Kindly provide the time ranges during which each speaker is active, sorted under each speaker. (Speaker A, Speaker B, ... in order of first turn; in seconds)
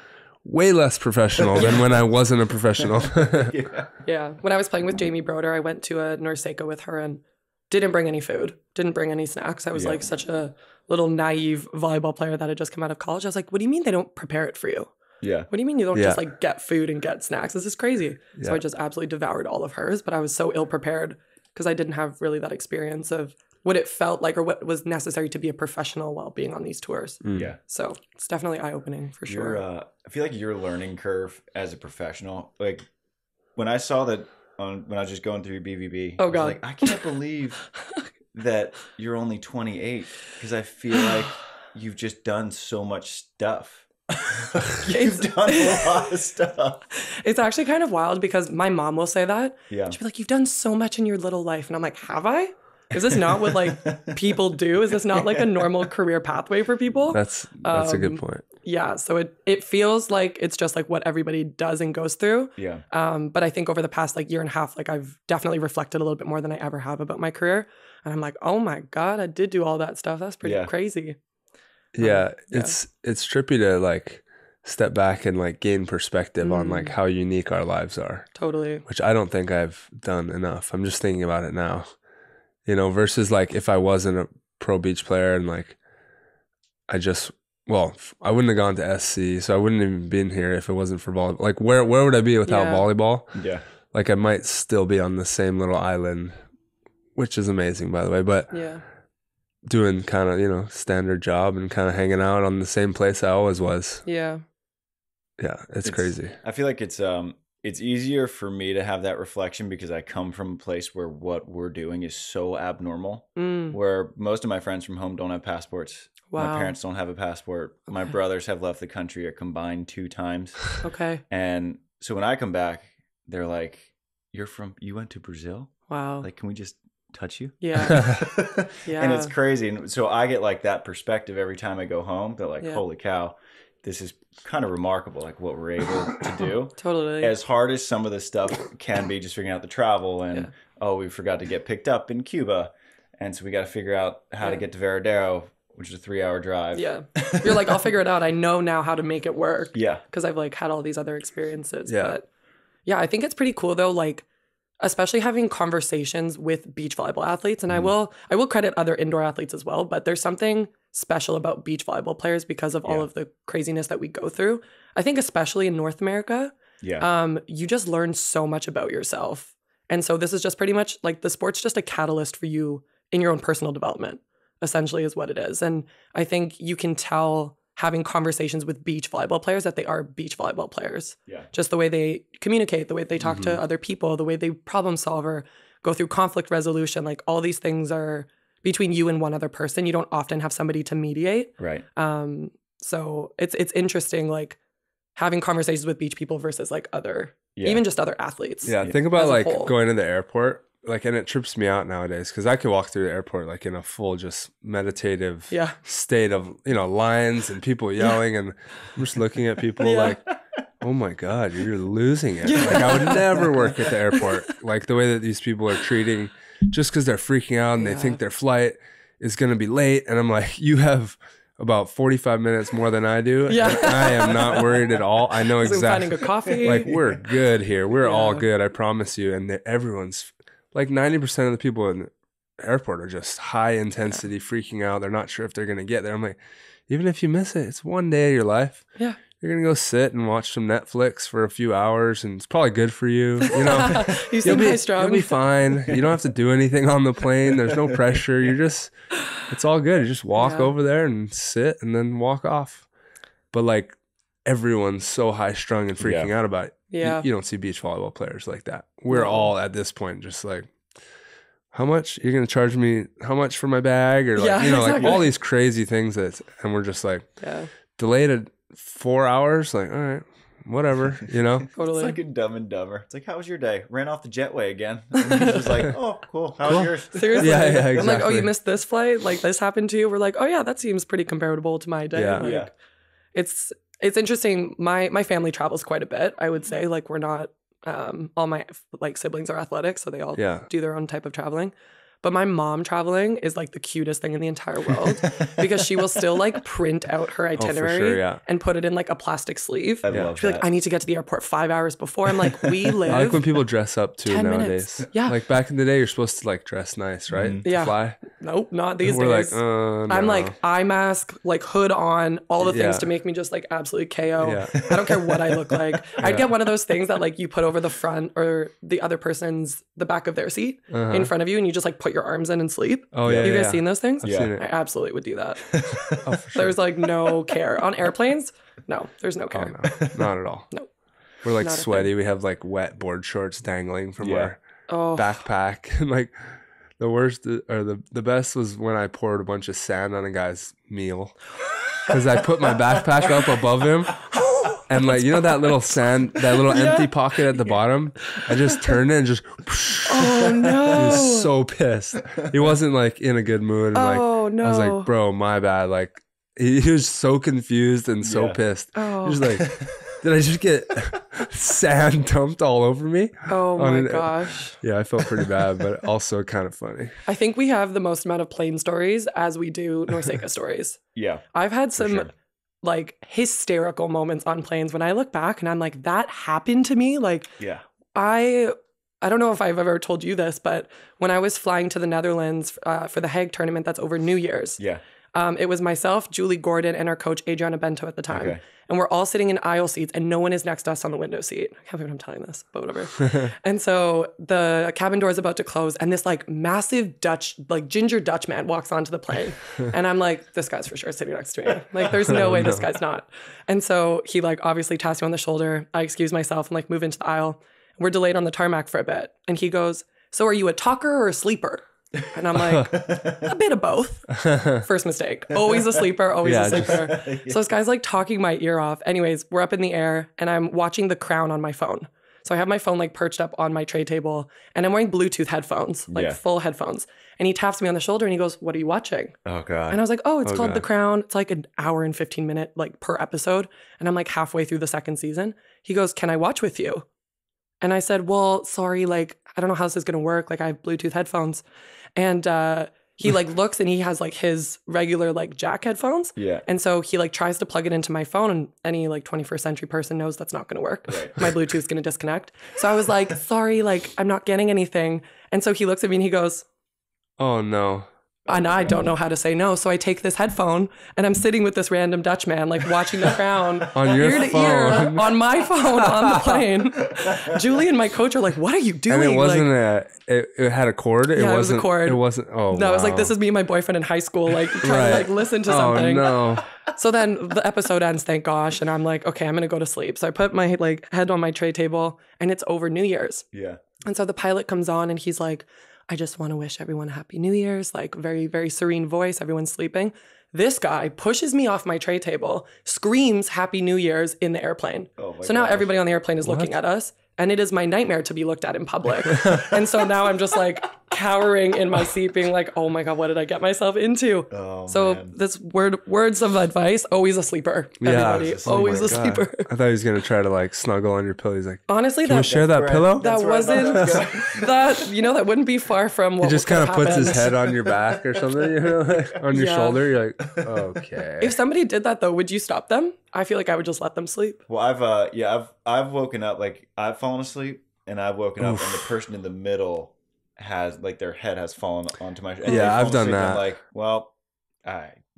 Speaker A: 0.4-3.5, 15.9-16.2, 27.2-27.5, 57.1-58.4, 71.9-78.3, 78.9-81.9, 82.7-85.8, 86.9-93.4, 93.9-96.3, 97.2-98.6, 99.7-104.0, 105.4-106.3, 151.9-152.2, 198.7-210.2, 210.8-236.4, 236.9-238.9, 239.4-252.9, 253.5-260.7, 261.7-267.4, 268.0-271.7, 276.7-278.5, 282.1-282.5, 290.4-290.7, 297.6-298.4, 303.1-308.2, 309.0-310.6, 312.6-313.1, 314.4-314.8, 316.2-316.5, 320.9-321.3, 323.1-324.6, 326.2-326.8, 329.5-330.7, 331.4-334.6, 335.2-341.4, 342.1-344.3, 344.9-367.1, 402.3-402.8, 414.4-414.8, 416.4-417.1, 430.4-430.9, 457.4-458.1, 463.9-466.6, 469.1-473.4, 474.8-476.7, 496.4-496.8, 499.4-499.6, 508.0-514.3, 516.4-521.6, 528.6-529.1, 532.7-533.6
Speaker B: 1.4-1.7, 2.9-3.9, 9.8-10.0, 15.2-15.5, 29.3-32.8, 33.6-37.7, 38.3-46.8, 49.7-50.0, 53.2-54.2, 55.1-55.9, 62.6-62.8, 70.4-70.7, 93.3-93.6, 105.8-147.9, 149.7-150.0, 166.8-167.1, 183.2-183.5, 191.6-191.8, 197.6-197.8, 198.7-199.0, 226.9-227.2, 247.6-248.2, 256.0-256.3, 265.0-265.2, 271.6-278.0, 282.4-282.7, 300.1-300.7, 302.4-303.3, 307.3-307.6, 314.8-316.2, 323.2-323.6, 324.2-324.6, 325.6-326.5, 329.9-330.3, 334.2-334.5, 350.6-350.9, 358.2-358.6, 359.4-360.2, 371.1-372.3, 388.3-388.6, 412.9-413.5, 415.6-417.7, 426.1-426.4, 429.4-430.0, 446.4-446.6, 451.1-451.6, 458.5-459.1, 463.9-464.9, 467.2-467.6, 483.5-483.8, 495.2-496.0, 504.5-505.4, 508.1-509.4, 512.4-515.1, 517.3-519.4, 520.4-521.0, 524.7-534.3, 534.8-535.1
Speaker C: 4.0-14.9, 15.5-29.6, 36.2-37.0, 44.8-46.0, 47.0-71.2, 72.0-72.8, 76.4-76.9, 78.4-78.8, 92.5-92.8, 98.5-98.8, 104.0-104.4, 113.4-113.8, 116.3-116.7, 120.8-121.2, 125.9-126.3, 127.6-128.3, 128.8-129.3, 136.8-137.3, 146.8-152.3, 152.9-154.2, 154.8-194.6, 195.2-199.7, 205.5-205.8, 209.8-210.2, 212.4-213.6, 214.1-214.5, 217.8-218.2, 223.5-224.9, 225.6-226.9, 228.0-228.4, 243.4-245.4, 250.4-250.7, 256.9-257.3, 259.1-259.5, 264.4-265.2, 267.4-267.7, 271.8-272.2, 275.3-275.6, 277.1-282.7, 283.4-303.5, 304.3-305.4, 307.6-325.7, 326.5-329.9, 331.6-332.1, 334.9-335.4, 344.3-345.6, 346.6-347.1, 348.2-348.9, 350.1-351.5, 353.9-355.1, 358.9-359.4, 363.5-364.8, 367.3-371.0, 371.5-372.3, 372.8-377.6, 378.1-384.8, 385.3-429.4, 429.9-437.1, 437.8-441.6, 442.2-456.6, 458.5-469.7, 471.4-483.4, 484.0-509.7, 511.9-512.6, 513.2-517.6, 519.5-520.0, 521.4-524.6, 532.7-533.0